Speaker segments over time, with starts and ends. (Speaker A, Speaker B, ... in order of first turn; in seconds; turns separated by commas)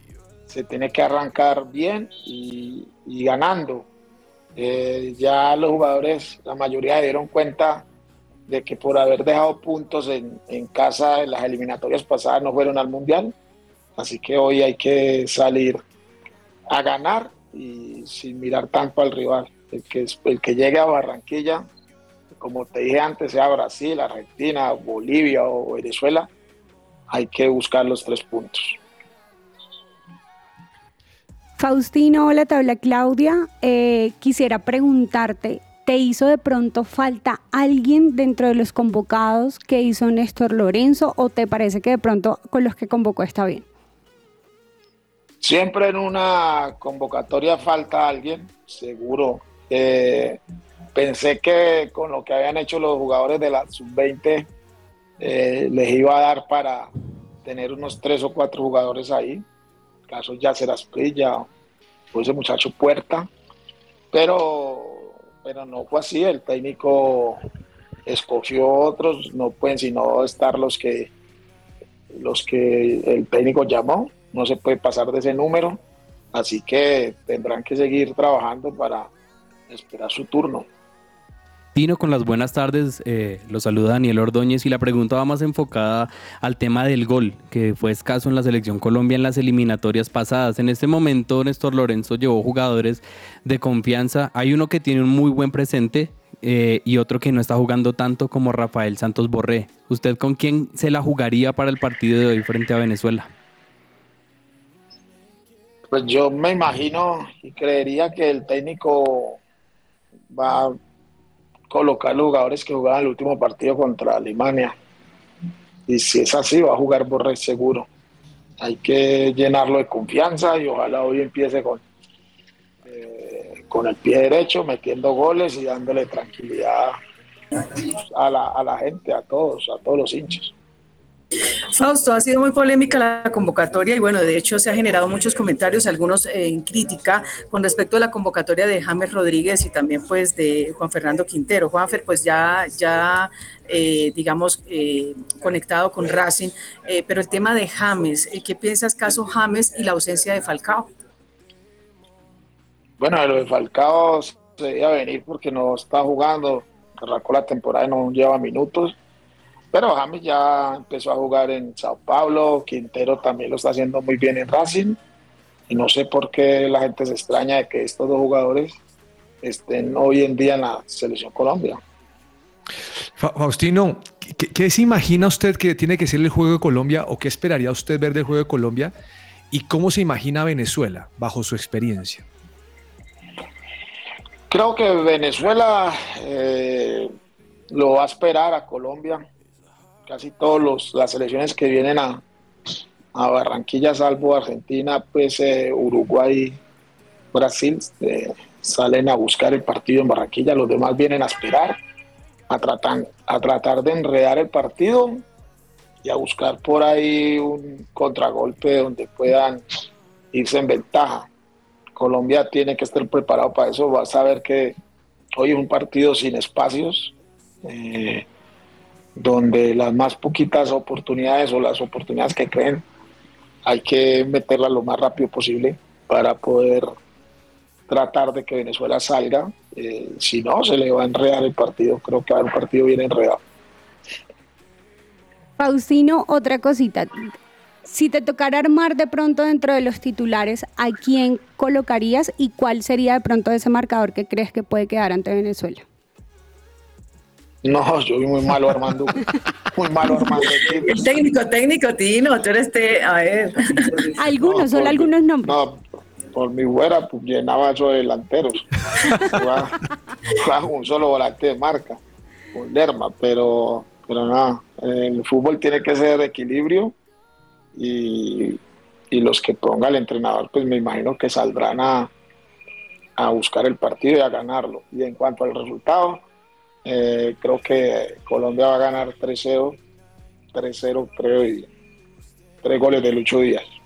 Speaker A: 0.5-3.9, Speaker A: 4.6-7.9, Speaker A: 8.5-13.3, Speaker A: 14.0-15.8, Speaker A: 16.7-21.7, Speaker A: 22.3-26.3, Speaker A: 27.1-28.8, Speaker B: 31.6-43.6, Speaker A: 45.4-50.4, Speaker A: 51.0-54.5, Speaker A: 55.2-56.9, Speaker A: 57.5-59.5, Speaker A: 60.1-61.5, Speaker A: 62.1-63.3, Speaker A: 64.1-67.4, Speaker A: 68.1-71.1, Speaker A: 72.1-75.8, Speaker A: 76.3-79.1, Speaker A: 79.7-80.7, Speaker C: 81.8-103.3, Speaker A: 105.9-109.4, Speaker A: 110.3-110.8, Speaker A: 111.7-114.8, Speaker A: 115.9-117.9, Speaker A: 118.6-121.8, Speaker A: 122.9-127.0, Speaker A: 127.8-130.5, Speaker D: 131.7-150.9, Speaker A: 153.0-159.0, Speaker A: 159.7-165.0, Speaker A: 165.7-168.8, Speaker A: 169.4-171.8, Speaker E: 173.2-178.9, Speaker E: 179.5-182.2, Speaker A: 184.5-187.1, Speaker A: 187.7-189.3, Speaker A: 190.1-192.2, Speaker A: 193.1-196.6, Speaker A: 197.3-201.8, Speaker A: 202.5-205.2, Speaker A: 206.0-209.7, Speaker A: 210.3-211.3, Speaker A: 212.0-214.8, Speaker A: 215.4-217.1, Speaker A: 217.6-218.3, Speaker A: 219.2-222.8, Speaker A: 223.7-226.9, Speaker A: 227.9-233.4, Speaker B: 235.6-237.3, Speaker B: 237.9-245.8, Speaker A: 247.6-251.1, Speaker D: 250.8-254.0, Speaker B: 254.2-255.6, Speaker A: 254.3-262.0, Speaker A: 262.5-266.9, Speaker A: 267.8-272.1, Speaker A: 273.2-276.2, Speaker A: 276.9-279.8, Speaker A: 280.5-281.7, Speaker A: 282.6-283.6